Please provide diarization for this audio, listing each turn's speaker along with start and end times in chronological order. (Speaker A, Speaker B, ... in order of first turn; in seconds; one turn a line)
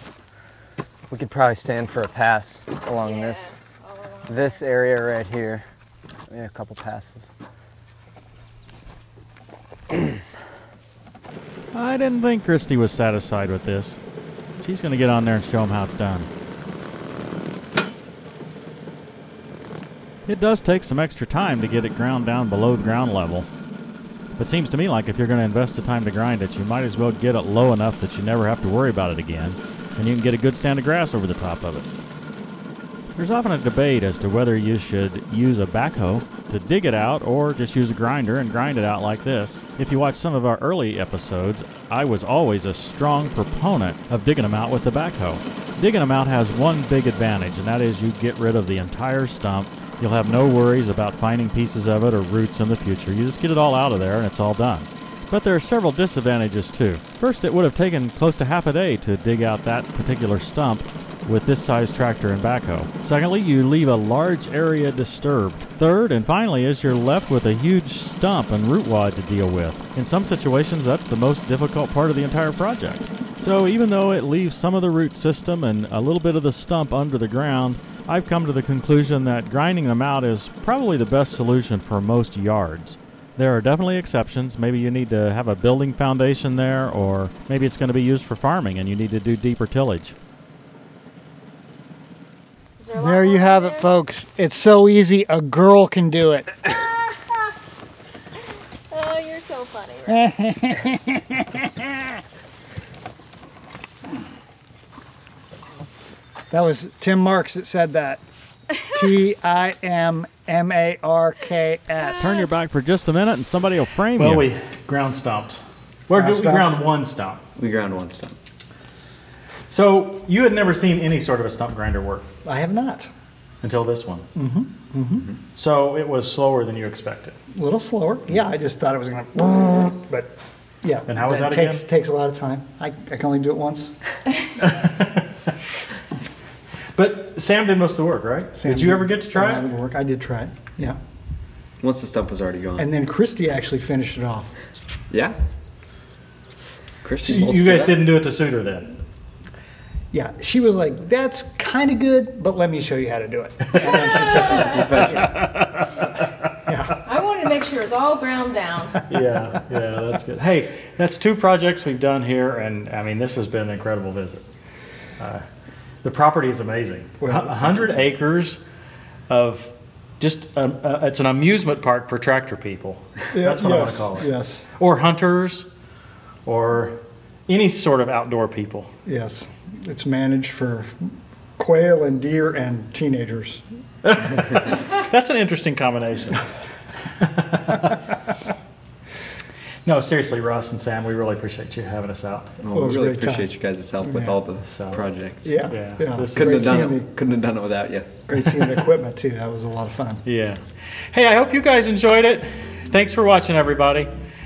Speaker A: 1.1-3.5
Speaker B: 2.9-4.8
Speaker A: 4.3-5.7
Speaker A: 6.3-7.3
Speaker C: 11.7-14.0
Speaker C: 14.6-16.3
Speaker C: 20.2-23.5
Speaker C: 24.4-31.9
Speaker C: 33.1-90.1
Speaker B: 92.8-93.9
Speaker D: 92.9-96.7
Speaker B: 96.8-97.4
Speaker B: 98.9-100.2
Speaker D: 100.1-102.1
Speaker D: 106.5-108.2
Speaker D: 108.8-112.5
Speaker C: 112.2-114.5
Speaker E: 114.2-117.4
Speaker D: 116.1-116.9
Speaker F: 117.5-118.3
Speaker E: 119.7-122.2
Speaker D: 122.4-123.1
Speaker E: 123.6-124.2
Speaker D: 124.3-125.3
Speaker E: 125.5-127.3
Speaker D: 127.5-133.9
Speaker E: 131.1-131.8
Speaker E: 134.6-135.5
Speaker E: 136.9-139.7
Speaker D: 138.5-141.0
Speaker F: 141.8-142.9
Speaker D: 142.8-144.5
Speaker F: 145.1-145.3
Speaker F: 147.0-148.1
Speaker E: 147.2-148.9
Speaker D: 150.1-155.4
Speaker F: 154.4-155.4
Speaker D: 156.7-157.0
Speaker B: 157.9-158.4
Speaker E: 159.1-164.4
Speaker E: 166.0-168.6
Speaker D: 167.2-168.0
Speaker E: 169.3-175.7
Speaker D: 173.3-174.6
Speaker E: 176.4-176.9
Speaker E: 177.5-178.9
Speaker D: 179.1-183.6
Speaker E: 184.0-186.4
Speaker E: 187.2-188.0
Speaker E: 189.8-192.5
Speaker F: 192.6-195.7
Speaker D: 192.7-194.4
Speaker E: 194.6-195.0
Speaker D: 195.4-197.1
Speaker E: 195.7-196.7
Speaker F: 196.3-198.3
Speaker D: 198.3-200.2
Speaker E: 200.2-200.6
Speaker E: 201.1-204.1